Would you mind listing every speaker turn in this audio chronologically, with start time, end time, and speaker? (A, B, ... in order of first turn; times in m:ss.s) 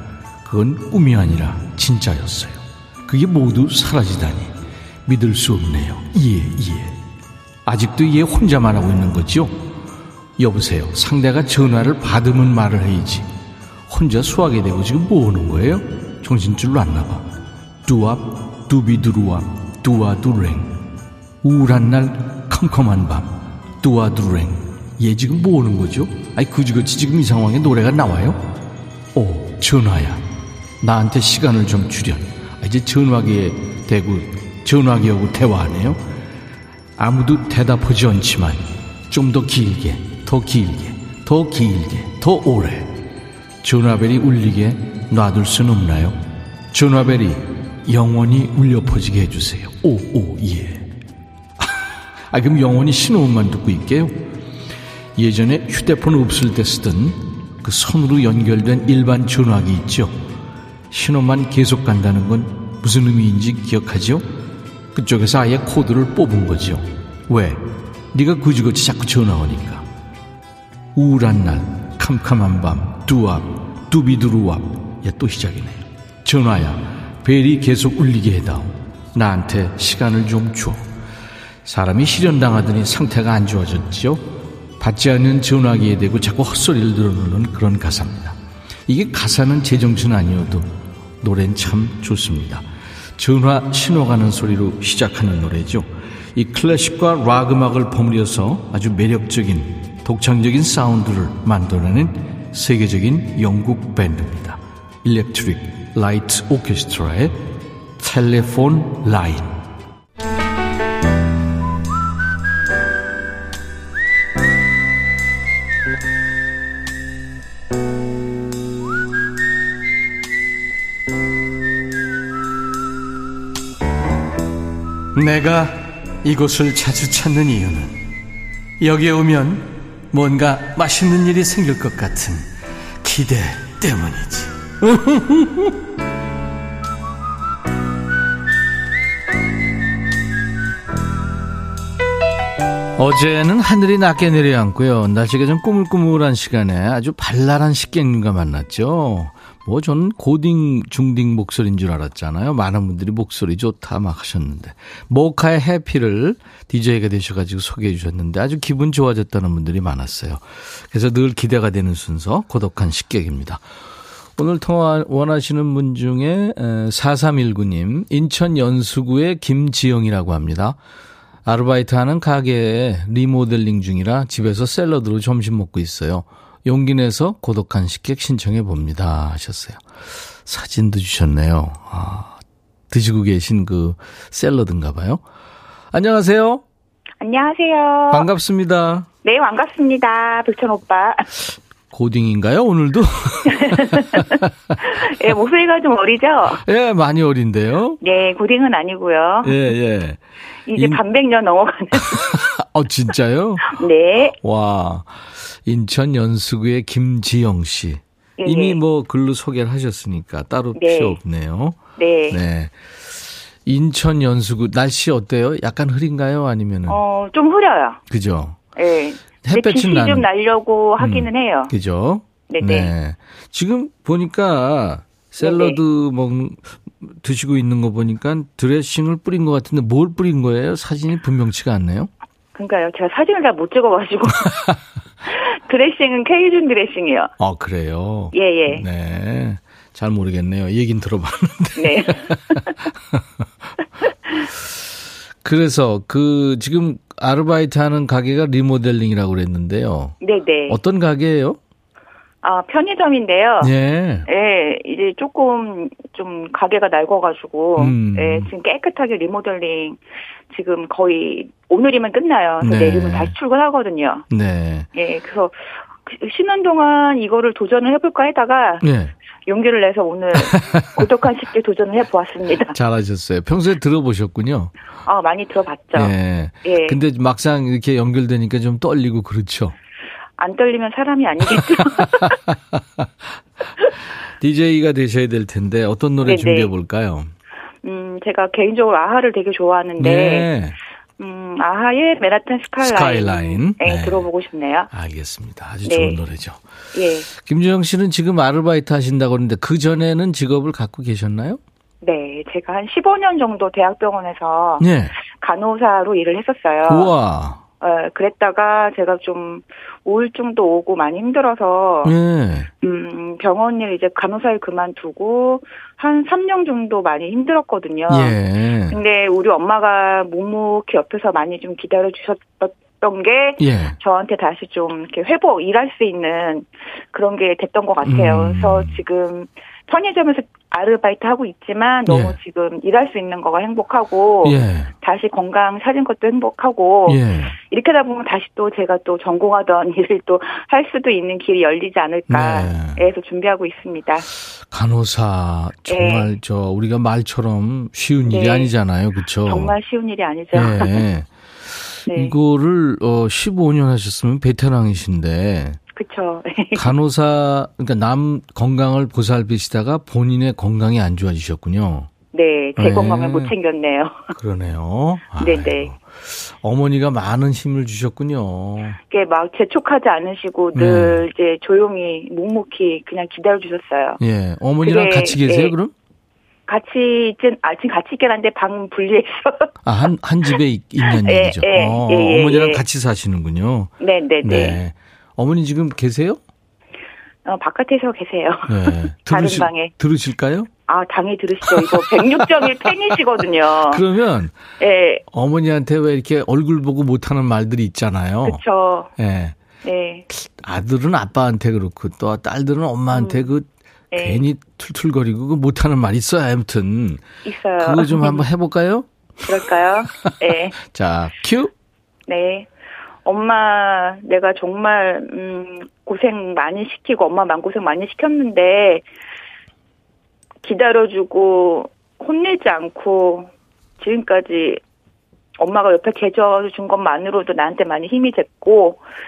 0:00.4-0:04.5 A
0:05.0-0:07.0 A
0:07.6-0:09.7 A
0:10.4-0:13.3 A
0:13.9-0:17.2 A
0:17.8-0:20.8 A
0:21.4-0:28.4 A
0:29.1-0:30.2 A
0:30.8-0:36.0 A
0:37.0-0:43.0 A
0:43.6-0:46.2 A
0:46.7-0:50.9 A
0:51.6-0:54.3 A
0:55.2-1:00.2 A
1:00.9-1:04.3 A
1:04.9-1:07.6 A
1:08.1-1:09.8 A
1:10.9-1:20.9 A
1:21.6-1:24.2 A
1:24.8-1:28.4 A
1:28.9-1:32.6 A
1:33.2-1:47.4 A
1:48.0-1:49.6 A
2:05.1-2:08.1 A
2:08.8-2:12.5 A
2:13.0-2:15.7 A
2:23.0-2:43.6 A
2:44.4-2:50.8 A
2:51.4-2:59.8 A
3:00.4-3:02.4 A
3:02.9-3:05.2 A
3:05.9-3:06.6 A
3:07.2-3:08.3 B
3:08.1-3:09.1 A
3:09.2-3:11.3 B
3:11.9-3:14.5 A
3:13.6-3:14.2 B
3:14.8-3:16.6 B
3:16.6-3:18.0 A
3:18.0-3:19.6 B
3:19.4-3:20.2 A
3:20.7-3:22.2 B
3:20.7-3:21.0 A
3:22.0-3:23.8 A
3:23.7-3:24.3 B
3:24.4-3:31.8 A
3:28.4-3:28.8 B
3:30.8-3:31.2 B
3:32.0-3:32.4 B
3:32.3-3:32.7 A
3:33.6-3:37.0 A
3:36.9-3:38.0 B
3:38.1-3:38.6 A
3:38.8-3:41.7 B
3:39.4-3:40.2 A
3:41.0-3:52.1 A
3:42.5-3:42.9 B
3:45.4-3:45.8 B
3:52.5-3:54.5 B
3:55.4-3:57.3 B
3:57.4-4:02.6 A
3:58.3-3:58.8 B
4:01.8-4:02.6 B
4:05.4-4:10.2 A
4:10.2-4:10.8 B
4:10.7-4:11.6 A
4:12.4-4:13.7 B
4:13.6-4:14.3 A
4:14.3-4:20.0 B
4:17.8-4:18.5 A
4:20.5-4:24.2 B
4:22.6-4:23.3 A
4:24.3-4:24.9 A
4:24.9-4:28.8 B
4:28.8-4:29.1 A
4:29.4-4:32.7 B
4:30.4-4:30.9 A
4:32.7-4:34.7 A
4:35.0-4:37.0 B
4:35.9-4:39.8 A
4:40.4-4:42.4 B
4:41.5-4:43.1 A
4:44.4-4:47.3 A
4:46.2-4:46.7 B
4:47.8-4:50.5 B
4:50.0-4:50.8 A
4:51.2-4:54.9 B
4:52.8-4:54.3 A
4:54.9-4:56.6 A
4:55.8-4:56.2 B
4:56.9-4:57.3 B
4:57.4-5:01.6 A
5:02.0-5:07.1 B
5:04.8-5:05.1 A
5:06.8-5:07.6 A
5:07.8-5:12.1 B
5:12.0-5:12.7 A
5:12.8-5:18.4 B
5:18.1-5:19.0 A
5:18.9-5:44.2 B
5:23.6-5:24.0 A
5:28.0-5:29.0 A
5:32.1-5:32.4 A
5:34.4-5:34.9 A
5:37.1-5:37.5 A
5:42.3-5:43.0 A
5:44.7-5:49.7 A
5:45.9-5:46.3 B
5:48.3-5:48.7 B
5:49.4-5:51.0 B
5:50.5-5:51.3 A
5:52.0-5:55.8 A
5:52.1-5:52.3 B
5:55.9-5:56.9 B
5:56.7-6:02.1 A
6:02.3-6:04.2 B
6:02.8-6:03.5 A
6:04.3-6:09.0 A
6:05.4-6:05.9 B
6:09.1-6:14.2 B
6:10.7-6:11.2 A
6:14.2-6:15.9 A
6:14.8-6:15.7 B
6:16.7-6:19.7 B
6:19.8-6:23.9 A
6:21.1-6:22.8 B
6:24.0-6:24.8 B
6:24.4-6:26.4 A
6:27.4-6:29.9 B
6:28.7-6:30.7 A
6:30.9-6:34.0 B
6:31.6-6:32.9 A
6:33.9-6:34.6 A
6:34.8-6:35.2 B
6:35.3-6:38.6 A
6:38.4-6:39.1 B
6:39.2-6:39.5 A
6:39.8-6:40.2 B
6:40.3-6:47.2 A
6:43.1-6:43.4 B
6:44.1-6:44.4 B
6:47.4-6:48.4 B
6:47.8-6:49.1 A
6:49.4-6:50.7 B
6:50.8-6:51.7 A
6:52.3-6:52.7 B
6:53.2-6:59.0 B
7:00.6-7:04.8 B
7:05.6-7:09.0 B